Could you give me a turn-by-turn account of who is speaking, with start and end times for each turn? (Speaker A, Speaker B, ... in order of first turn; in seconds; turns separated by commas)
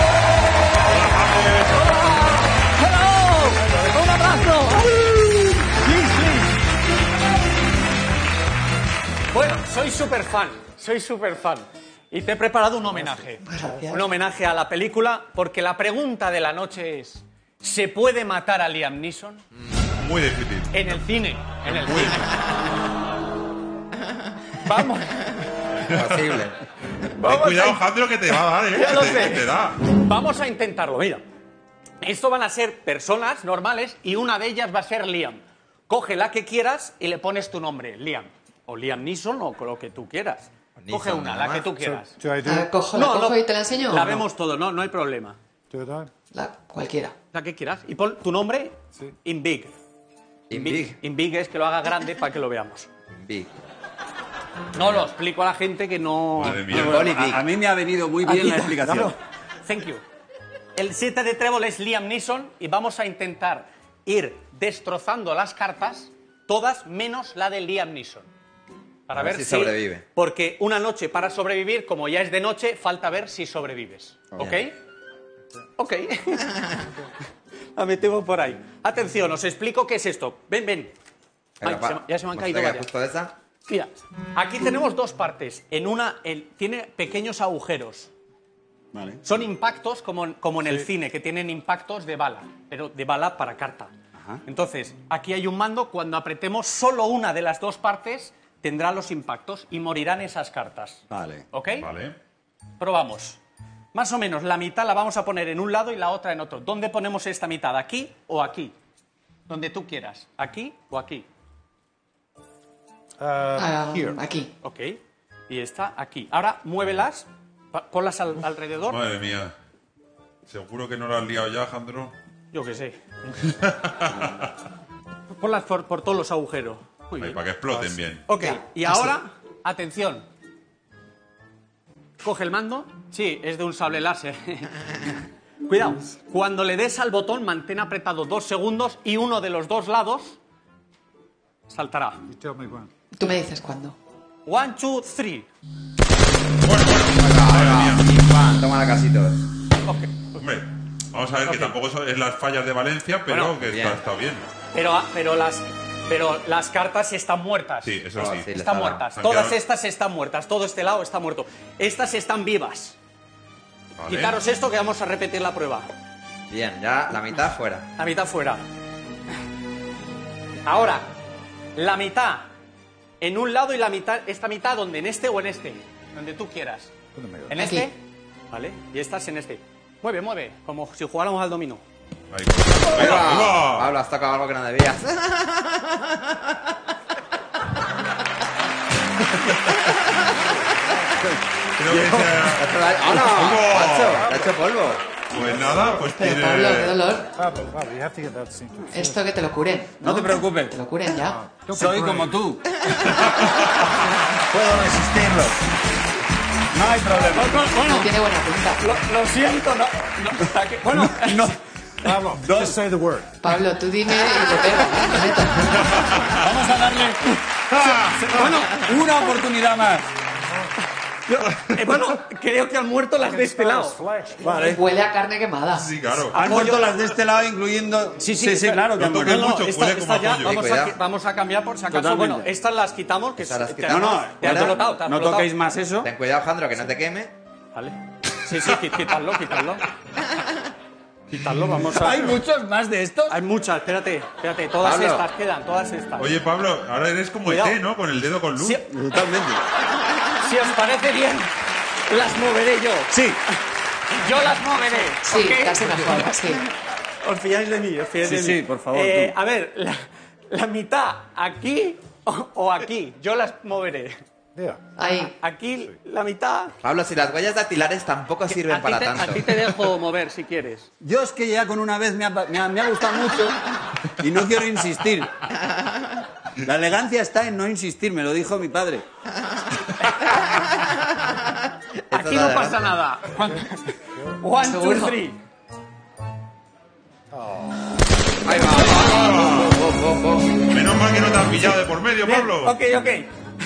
Speaker A: 0.9-1.7, Speaker B: 1.7-6.6, Speaker B: 9.3-19.4, Speaker C: 13.4-14.0, Speaker A: 20.0-21.0, Speaker B: 20.7-22.3, Speaker A: 21.6-22.2, Speaker B: 24.6-25.3, Speaker A: 25.8-26.4, Speaker D: 25.9-26.6, Speaker B: 27.2-27.8, Speaker A: 27.2-29.8, Speaker B: 28.7-31.2, Speaker B: 32.0-42.2, Speaker D: 40.8-41.7, Speaker E: 42.0-42.7, Speaker C: 42.4-44.2, Speaker B: 42.9-45.4, Speaker E: 45.7-46.1, Speaker C: 46.3-47.1, Speaker B: 47.3-49.7, Speaker D: 50.5-51.0, Speaker B: 50.5-52.9, Speaker D: 53.1-53.5, Speaker B: 54.7-56.6, Speaker D: 54.8-55.1, Speaker A: 56.4-57.1, Speaker F: 56.7-59.1, Speaker D: 56.7-57.5, Speaker B: 58.2-60.0, Speaker B: 60.7-68.3, Speaker B: 69.1-74.7, Speaker D: 69.1-70.0, Speaker D: 74.4-74.6, Speaker B: 75.8-76.8, Speaker B: 77.7-80.9, Speaker D: 81.6-83.3, Speaker B: 81.6-82.9, Speaker B: 83.7-88.1, Speaker F: 88.9-89.2, Speaker B: 89.2-93.9, Speaker F: 94.2-94.4, Speaker B: 94.5-101.9, Speaker F: 101.1-101.4, Speaker A: 101.8-102.1, Speaker B: 102.8-103.4, Speaker B: 103.9-108.7, Speaker B: 109.5-111.3, Speaker E: 113.2-114.2, Speaker C: 113.6-114.5, Speaker B: 114.6-119.0, Speaker A: 118.9-119.5, Speaker A: 120.5-122.1, Speaker B: 122.5-123.0, Speaker A: 123.5-124.5, Speaker B: 125.3-127.4, Speaker A: 127.2-128.2, Speaker B: 128.2-130.2, Speaker C: 128.4-129.1, Speaker B: 132.2-140.4, Speaker B: 141.7-142.2, Speaker E: 142.3-142.9, Speaker C: 143.1-144.0, Speaker B: 144.4-145.5, Speaker A: 146.6-148.1, Speaker D: 147.2-149.4, Speaker B: 149.8-150.4, Speaker A: 150.4-154.5, Speaker B: 151.4-151.7, Speaker B: 153.3-153.6, Speaker D: 153.6-154.0, Speaker B: 154.7-163.0, Speaker A: 157.8-158.5, Speaker D: 158.2-159.0, Speaker A: 159.1-159.6, Speaker A: 164.0-164.4, Speaker B: 164.1-165.9, Speaker D: 166.5-167.9, Speaker B: 168.0-168.6, Speaker B: 170.6-171.1, Speaker B: 171.8-172.5, Speaker B: 173.2-176.9, Speaker E: 177.1-177.5, Speaker B: 177.5-177.9, Speaker C: 177.6-177.9, Speaker B: 178.5-181.8, Speaker A: 182.3-183.9, Speaker D: 182.9-186.4, Speaker A: 191.8-194.2, Speaker D: 192.4-195.0, Speaker A: 195.3-197.0, Speaker C: 196.1-197.3, Speaker E: 197.3-199.2, Speaker C: 198.9-201.4, Speaker F: 200.0-200.8, Speaker E: 201.3-202.3, Speaker F: 201.7-202.8, Speaker A: 203.0-203.6, Speaker F: 204.5-205.6, Speaker F: 206.7-207.8, Speaker B: 207.3-208.1, Speaker C: 207.8-208.8, Speaker B: 208.8-212.1, Speaker F: 210.8-213.0, Speaker E: 212.1-213.4, Speaker C: 213.4-216.2, Speaker A: 216.0-216.3, Speaker F: 216.3-217.3, Speaker B: 217.8-218.9, Speaker F: 218.0-220.1, Speaker B: 221.3-224.0, Speaker E: 223.3-224.5, Speaker F: 224.4-224.8, Speaker C: 224.5-225.9, Speaker A: 225.7-226.5, Speaker B: 226.3-226.9, Speaker F: 226.3-229.5, Speaker B: 228.2-235.5, Speaker A: 228.9-230.6, Speaker D: 230.4-231.0, Speaker F: 231.9-232.5, Speaker D: 233.4-234.8, Speaker F: 233.9-236.1, Speaker D: 236.0-237.3, Speaker B: 237.7-239.8, Speaker B: 241.3-242.4, Speaker F: 241.9-243.3, Speaker B: 243.3-246.3, Speaker D: 244.8-245.3, Speaker A: 246.2-248.8, Speaker B: 247.4-247.8, Speaker B: 248.6-248.8, Speaker F: 248.8-249.6, Speaker B: 250.4-251.5, Speaker B: 252.1-253.2, Speaker F: 253.1-253.4, Speaker B: 254.1-256.5, Speaker C: 255.2-256.6, Speaker B: 257.2-264.2, Speaker F: 258.2-259.3, Speaker E: 264.6-264.9, Speaker C: 264.9-265.3, Speaker B: 265.4-266.7, Speaker D: 266.8-269.5, Speaker B: 268.5-270.9, Speaker F: 271.0-275.4, Speaker F: 276.6-279.0, Speaker D: 282.1-282.8, Speaker B: 282.1-285.4, Speaker C: 284.6-285.2, Speaker D: 288.4-290.6, Speaker A: 288.6-289.8, Speaker A: 290.7-292.8, Speaker B: 292.2-293.3